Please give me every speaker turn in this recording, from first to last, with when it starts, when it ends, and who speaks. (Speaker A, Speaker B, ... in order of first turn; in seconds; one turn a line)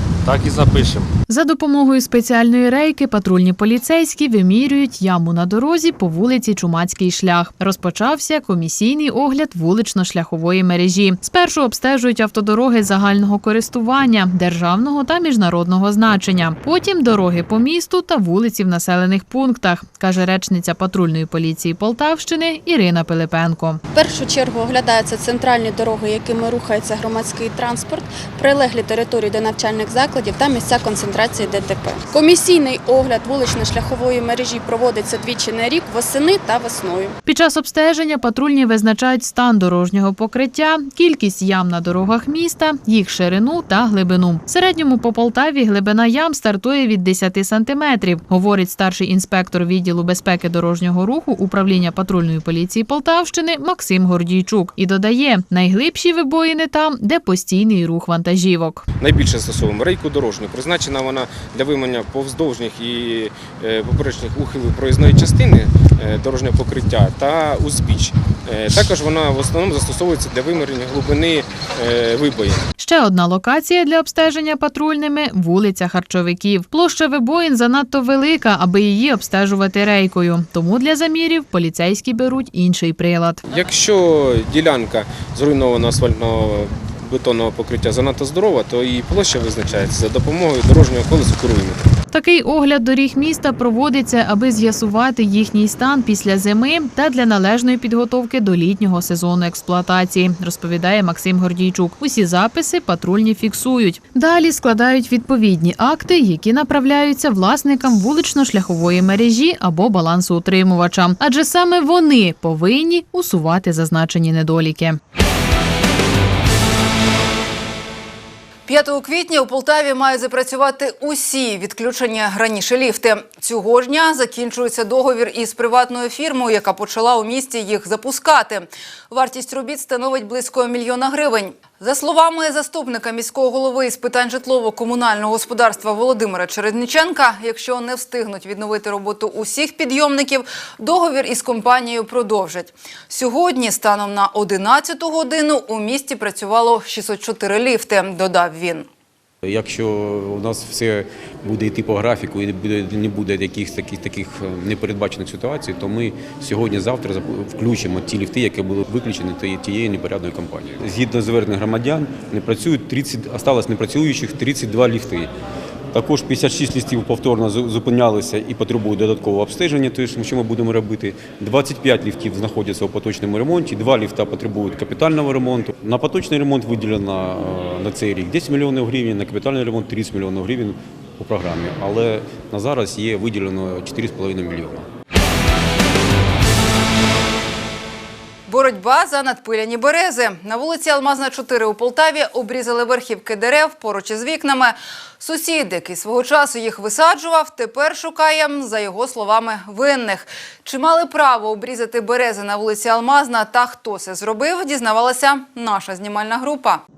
Speaker A: 0.2-1.1
Speaker B: 1.3-23.8
Speaker C: 23.9-37.2
Speaker B: 37.3-58.8
Speaker A: 59.0-72.7
Speaker B: 72.8-83.4
Speaker A: 83.5-91.9
Speaker B: 92.1-115.0
Speaker D: 118.7-148.9
Speaker E: 149.4-165.3
Speaker E: 165.9-184.9
Speaker D: 188.5-206.8